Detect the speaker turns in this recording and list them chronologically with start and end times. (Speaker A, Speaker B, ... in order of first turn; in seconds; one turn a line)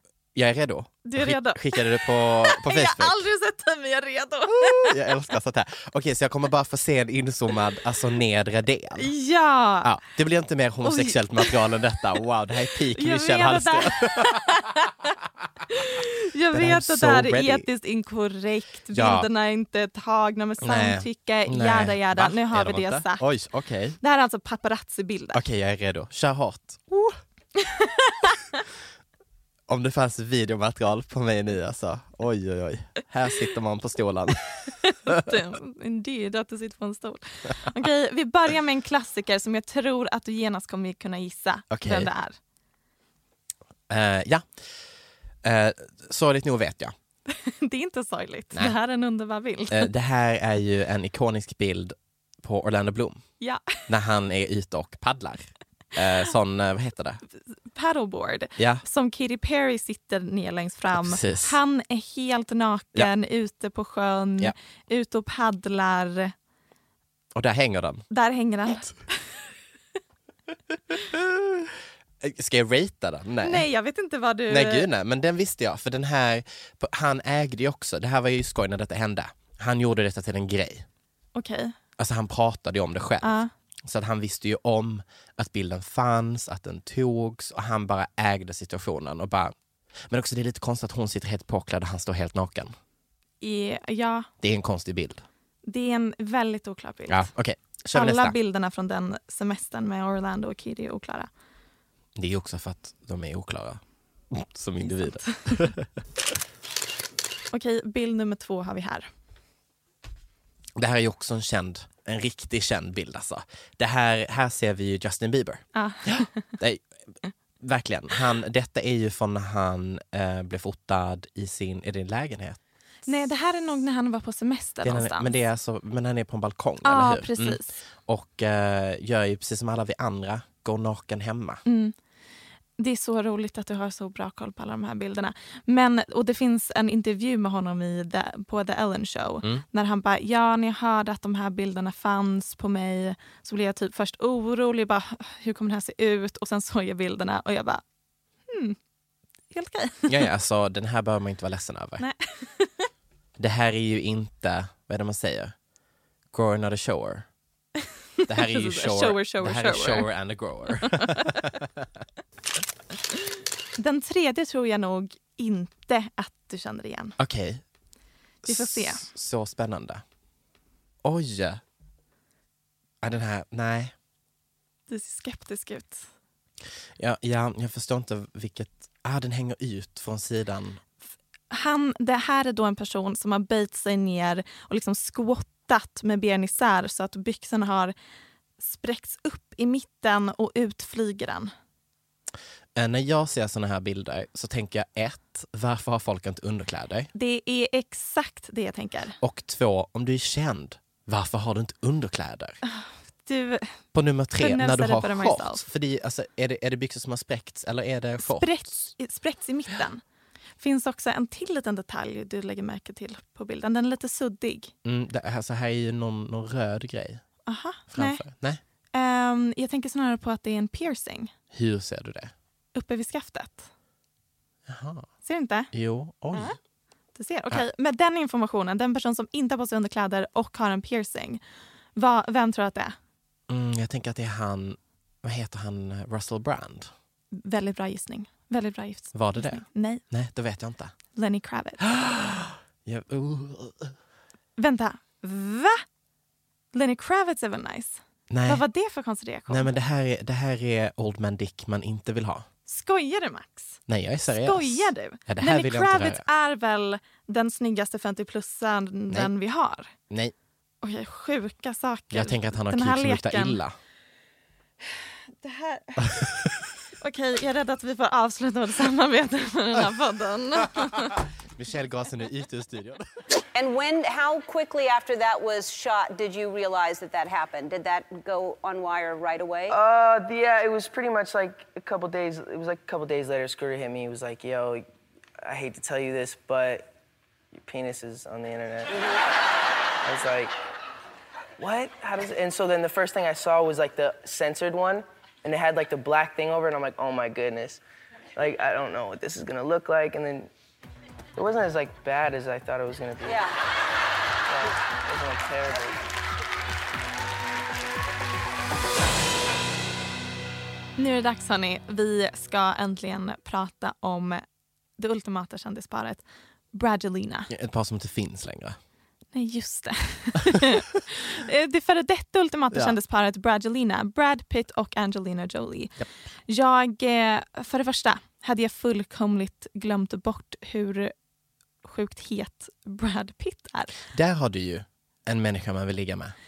Speaker A: 0.3-3.2
Speaker B: 1.1-5.1
Speaker A: 4.5-9.1
Speaker B: 9.0-9.9
Speaker A: 9.8-14.4
Speaker B: 10.8-11.7
Speaker B: 12.9-15.2
Speaker B: 15.7-23.2
Speaker A: 16.5-17.7
Speaker A: 18.9-19.3
Speaker A: 20.6-24.0
Speaker B: 24.0-25.4
Speaker A: 25.3-27.2
Speaker B: 27.6-28.6
Speaker A: 29.7-35.2
Speaker B: 34.9-42.4
Speaker A: 41.7-42.1
Speaker A: 43.9-44.5
Speaker A: 45.4-46.9
Speaker B: 47.3-49.9
Speaker A: 49.7-53.2
Speaker B: 53.4-53.8
Speaker A: 53.9-57.2
Speaker B: 57.7-66.3
Speaker A: 58.6-58.8
Speaker A: 60.9-61.6
Speaker A: 67.3-68.0
Speaker B: 68.1-69.0
Speaker A: 70.9-73.7
Speaker B: 73.4-74.9
Speaker A: 74.5-80.9
Speaker B: 81.3-81.8
Speaker A: 82.0-89.5
Speaker B: 83.2-83.5
Speaker A: 90.1-92.7
Speaker B: 93.4-94.3
Speaker A: 94.4-95.2
Speaker B: 95.7-97.3
Speaker A: 97.1-98.3
Speaker B: 97.9-101.3
Speaker A: 102.2-105.9
Speaker B: 104.8-105.7
Speaker B: 107.5-109.1
Speaker A: 110.8-116.8
Speaker B: 115.7-116.4
Speaker A: 117.6-122.6
Speaker B: 123.1-125.3
Speaker A: 124.8-131.6
Speaker B: 126.8-127.7
Speaker B: 131.7-131.9
Speaker B: 132.8-147.8
Speaker B: 148.5-148.8
Speaker B: 149.5-150.2
Speaker A: 150.1-152.1
Speaker B: 152.0-152.7
Speaker A: 153.4-155.6
Speaker A: 156.3-157.3
Speaker B: 158.2-160.1
Speaker A: 158.3-161.7
Speaker B: 160.8-161.4
Speaker B: 163.8-167.2
Speaker A: 167.2-167.6
Speaker B: 168.4-169.1
Speaker A: 168.4-170.0
Speaker A: 171.0-171.6
Speaker A: 173.0-173.9
Speaker B: 174.9-176.1
Speaker A: 177.0-180.8
Speaker B: 181.5-187.9
Speaker B: 188.6-191.5
Speaker A: 192.8-197.1
Speaker B: 197.2-199.2
Speaker A: 199.2-202.6
Speaker B: 202.7-203.7
Speaker A: 203.9-208.5
Speaker B: 204.4-205.6
Speaker B: 208.2-210.0
Speaker B: 210.6-214.7
Speaker A: 214.8-217.2
Speaker B: 217.5-218.2
Speaker A: 217.9-218.6
Speaker B: 218.9-221.3
Speaker A: 221.5-222.3
Speaker B: 222.8-223.7
Speaker A: 224.7-225.1
Speaker B: 225.2-225.7
Speaker A: 225.7-226.6
Speaker B: 226.3-226.6
Speaker B: 227.2-231.4
Speaker B: 232.0-233.0
Speaker A: 233.5-236.9
Speaker B: 237.3-240.0
Speaker A: 239.1-240.9
Speaker B: 241.2-241.9
Speaker A: 241.8-243.9
Speaker B: 244.6-245.8
Speaker B: 246.7-249.7
Speaker A: 248.3-248.6
Speaker A: 249.5-252.5
Speaker B: 252.7-259.9
Speaker A: 253.9-256.2
Speaker B: 260.8-263.6
Speaker A: 262.1-263.8
Speaker B: 265.4-266.3
Speaker A: 266.0-266.5
Speaker B: 267.0-271.2
Speaker A: 271.5-273.1
Speaker C: 273.6-279.8
Speaker D: 279.7-284.9
Speaker D: 285.4-286.9
Speaker D: 287.6-289.0
Speaker D: 290.0-290.6
Speaker D: 291.6-297.8
Speaker D: 298.4-300.5
Speaker D: 301.4-303.5
Speaker D: 304.5-306.0
Speaker B: 311.0-314.4
Speaker B: 315.0-317.5
Speaker A: 317.5-318.8
Speaker B: 319.3-325.9
Speaker B: 326.5-331.1
Speaker B: 331.8-333.9
Speaker A: 334.1-336.4